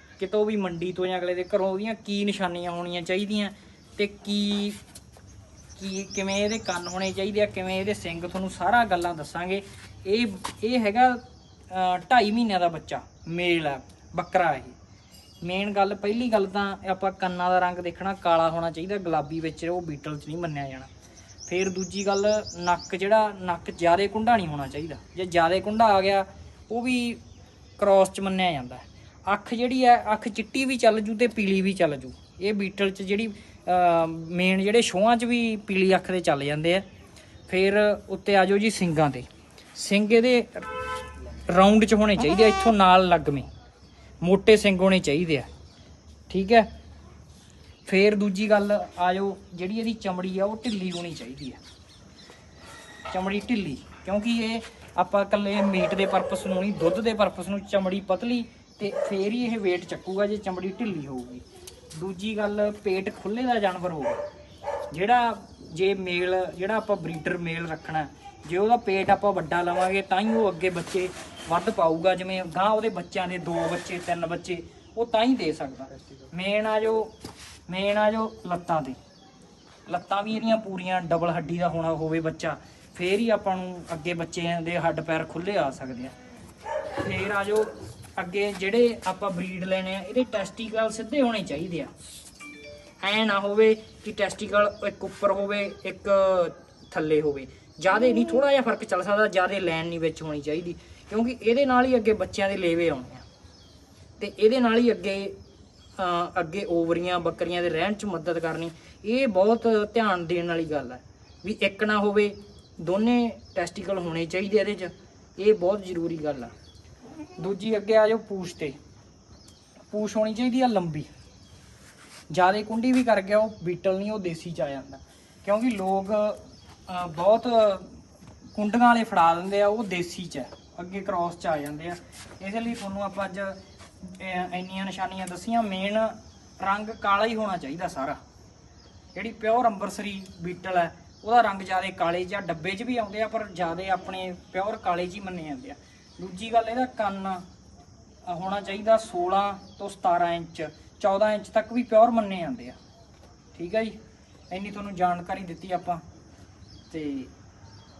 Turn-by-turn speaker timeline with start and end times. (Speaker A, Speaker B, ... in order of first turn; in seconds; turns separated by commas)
Speaker A: 0.2-4.8, Speaker A: 5.8-14.8, Speaker A: 15.4-20.9, Speaker A: 21.5-27.2, Speaker A: 27.8-36.9, Speaker A: 37.5-40.7, Speaker A: 41.5-43.5, Speaker A: 44.2-45.5, Speaker A: 46.3-46.7, Speaker A: 47.9-51.6, Speaker A: 53.1-64.2, Speaker A: 64.9-77.1, Speaker A: 77.7-79.0, Speaker A: 79.9-86.1, Speaker A: 87.0-91.9, Speaker A: 93.0-103.2, Speaker A: 104.2-105.4, Speaker A: 106.0-116.5, Speaker A: 117.4-118.8, Speaker A: 119.9-121.1, Speaker A: 122.3-128.0, Speaker A: 128.5-138.2, Speaker A: 139.1-147.4, Speaker A: 148.2-152.8, Speaker A: 153.5-154.0, Speaker A: 154.5-156.0, Speaker A: 156.9-157.3